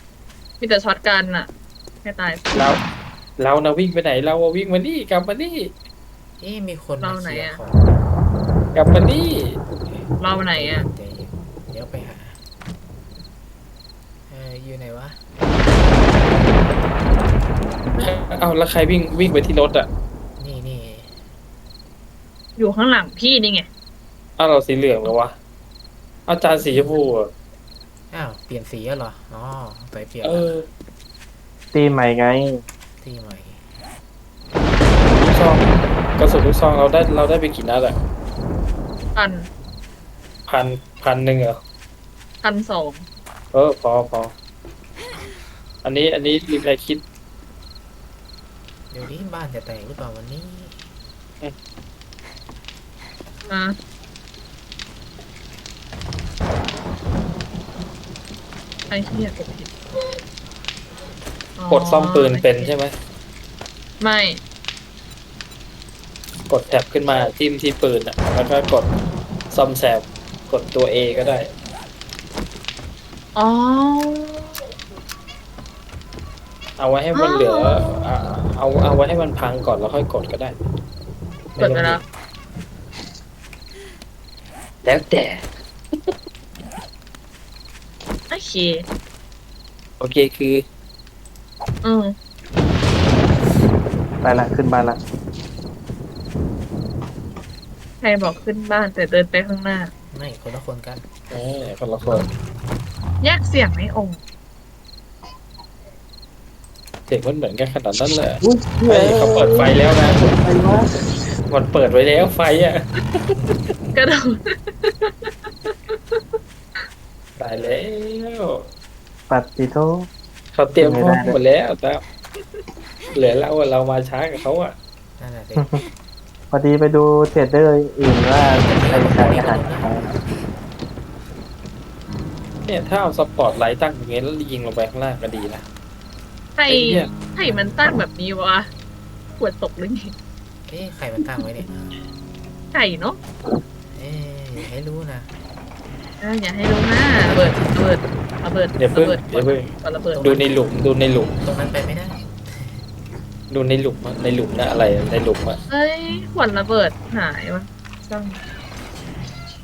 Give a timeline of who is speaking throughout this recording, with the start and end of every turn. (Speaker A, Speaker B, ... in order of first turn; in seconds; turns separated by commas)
Speaker A: 0.6-1.5, Speaker A: 2.0-2.4, Speaker B: 2.5-2.8, Speaker B: 3.4-5.8, Speaker C: 6.4-8.0, Speaker A: 7.0-7.6, Speaker B: 8.7-9.6, Speaker A: 10.2-10.9, Speaker C: 10.5-12.4, Speaker C: 14.3-15.2, Speaker B: 18.0-19.9, Speaker C: 20.4-21.1, Speaker A: 22.6-23.7, Speaker B: 24.4-25.4, Speaker B: 26.3-27.3, Speaker C: 28.1-30.5, Speaker B: 30.2-30.7, Speaker D: 31.7-32.6, Speaker C: 33.0-33.6, Speaker B: 35.0-38.0, Speaker A: 39.2-39.5, Speaker B: 40.5-41.6, Speaker A: 42.4-43.0, Speaker B: 43.5-44.3, Speaker B: 45.8-47.0, Speaker C: 48.9-50.8, Speaker A: 53.5-53.8, Speaker A: 58.9-59.8, Speaker A: 61.6-62.7, Speaker B: 61.7-62.9, Speaker A: 64.0-64.4, Speaker B: 66.5-68.9, Speaker B: 69.5-71.5, Speaker A: 73.4-74.5, Speaker B: 76.8-80.5, Speaker A: 77.2-77.9, Speaker B: 81.5-82.0, Speaker A: 81.6-82.0, Speaker B: 84.8-85.5, Speaker A: 88.3-88.8, Speaker B: 90.0-90.6, Speaker A: 91.8-92.1, Speaker D: 94.2-95.0, Speaker A: 98.0-99.9, Speaker C: 100.1-101.0, Speaker B: 101.3-102.3, Speaker A: 103.2-104.2, Speaker B: 107.1-110.2, Speaker D: 108.4-110.9, Speaker B: 111.3-112.8, Speaker A: 114.0-116.2, Speaker B: 117.4-118.7, Speaker D: 119.3-120.1, Speaker B: 120.5-122.0, Speaker D: 120.8-121.4, Speaker B: 123.2-124.8, Speaker C: 125.2-125.7, Speaker D: 125.6-125.8, Speaker D: 126.5-130.1, Speaker C: 128.6-129.9, Speaker B: 132.7-135.7, Speaker A: 136.6-138.7, Speaker B: 136.7-137.1, Speaker C: 137.4-137.8, Speaker A: 139.4-140.1, Speaker C: 140.7-141.9, Speaker A: 142.7-143.2, Speaker C: 143.9-145.3, Speaker A: 146.2-150.3, Speaker C: 147.2-147.8, Speaker B: 148.8-151.3, Speaker C: 150.1-152.8, Speaker B: 153.5-155.6, Speaker A: 155.7-158.4